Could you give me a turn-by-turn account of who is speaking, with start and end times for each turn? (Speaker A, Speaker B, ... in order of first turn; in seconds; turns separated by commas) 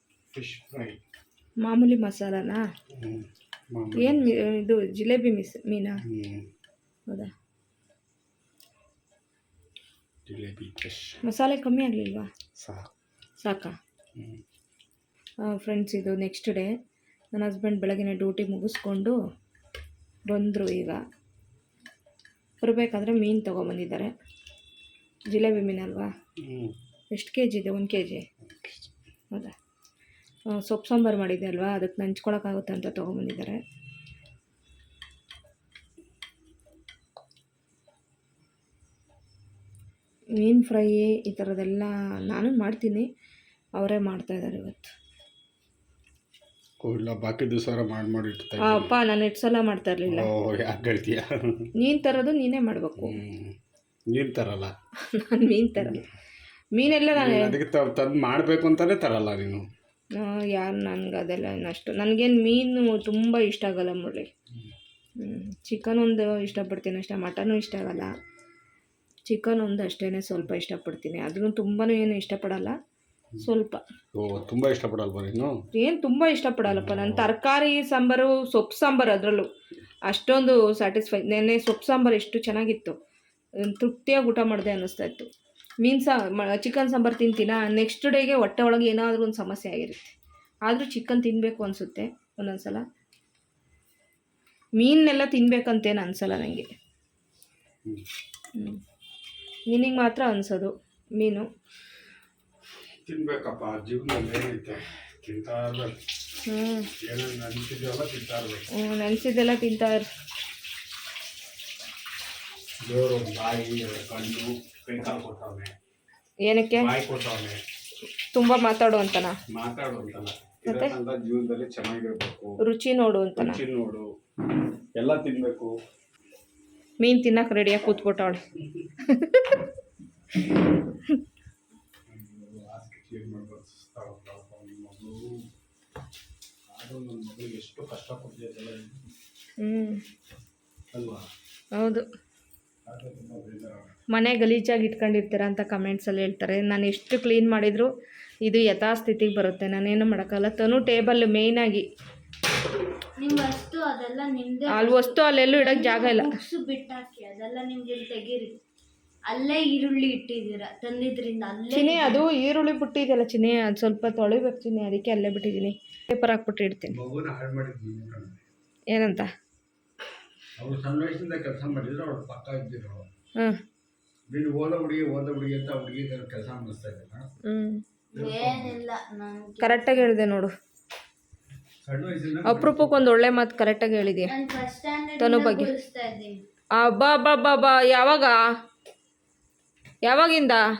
Speaker A: 0.3-1.0, Speaker B: 1.6-2.6, Speaker A: 3.0-4.2, Speaker B: 4.0-6.0, Speaker A: 6.1-6.5, Speaker A: 10.3-11.2, Speaker B: 11.2-12.3, Speaker A: 12.6-12.9, Speaker B: 13.4-13.8, Speaker B: 15.5-16.7, Speaker B: 17.3-19.2, Speaker B: 20.3-21.0, Speaker B: 22.6-24.1, Speaker B: 25.3-26.1, Speaker A: 26.4-26.8, Speaker B: 27.1-28.3, Speaker A: 28.5-28.9, Speaker B: 30.6-33.6, Speaker B: 40.4-43.1, Speaker B: 43.8-44.9, Speaker A: 46.8-48.9, Speaker B: 48.6-50.3, Speaker A: 50.1-51.7, Speaker B: 51.8-53.2, Speaker A: 53.0-53.5, Speaker A: 54.1-54.7, Speaker B: 55.1-56.0, Speaker B: 56.8-57.6, Speaker A: 57.1-59.6, Speaker B: 60.2-64.3, Speaker B: 65.2-68.1, Speaker B: 69.3-72.8, Speaker B: 73.4-73.8, Speaker A: 74.1-75.6, Speaker B: 75.7-79.5, Speaker A: 76.7-77.3, Speaker B: 80.1-83.0, Speaker B: 83.6-85.3, Speaker B: 85.8-90.2, Speaker B: 90.7-92.8, Speaker B: 94.8-96.7, Speaker B: 99.7-101.5, Speaker A: 103.0-106.0, Speaker B: 106.5-106.9, Speaker A: 107.0-108.7, Speaker B: 108.8-110.1, Speaker A: 112.8-115.7, Speaker B: 116.5-116.9, Speaker A: 116.8-117.6, Speaker B: 118.3-119.3, Speaker A: 119.5-122.6, Speaker B: 120.7-120.9, Speaker B: 122.6-123.6, Speaker A: 123.4-124.1, Speaker A: 125.0-125.7, Speaker B: 127.0-128.4, Speaker A: 128.6-128.9, Speaker B: 129.1-129.6, Speaker A: 132.1-135.3, Speaker A: 136.7-139.0, Speaker B: 139.6-140.0, Speaker A: 140.9-141.3, Speaker B: 141.8-142.1, Speaker A: 142.9-143.9, Speaker B: 144.1-147.9, Speaker B: 148.4-151.9, Speaker C: 153.2-158.6, Speaker B: 154.7-156.4, Speaker C: 159.3-162.2, Speaker B: 161.7-167.0, Speaker A: 166.9-168.4, Speaker B: 168.9-169.3, Speaker A: 170.6-173.1, Speaker A: 174.3-177.2, Speaker B: 177.4-177.8, Speaker C: 178.1-180.1, Speaker A: 178.2-178.8, Speaker B: 179.6-180.5, Speaker A: 181.8-183.0, Speaker B: 182.4-184.3, Speaker C: 184.3-186.4, Speaker B: 185.2-185.7, Speaker B: 186.8-188.4, Speaker B: 190.0-190.6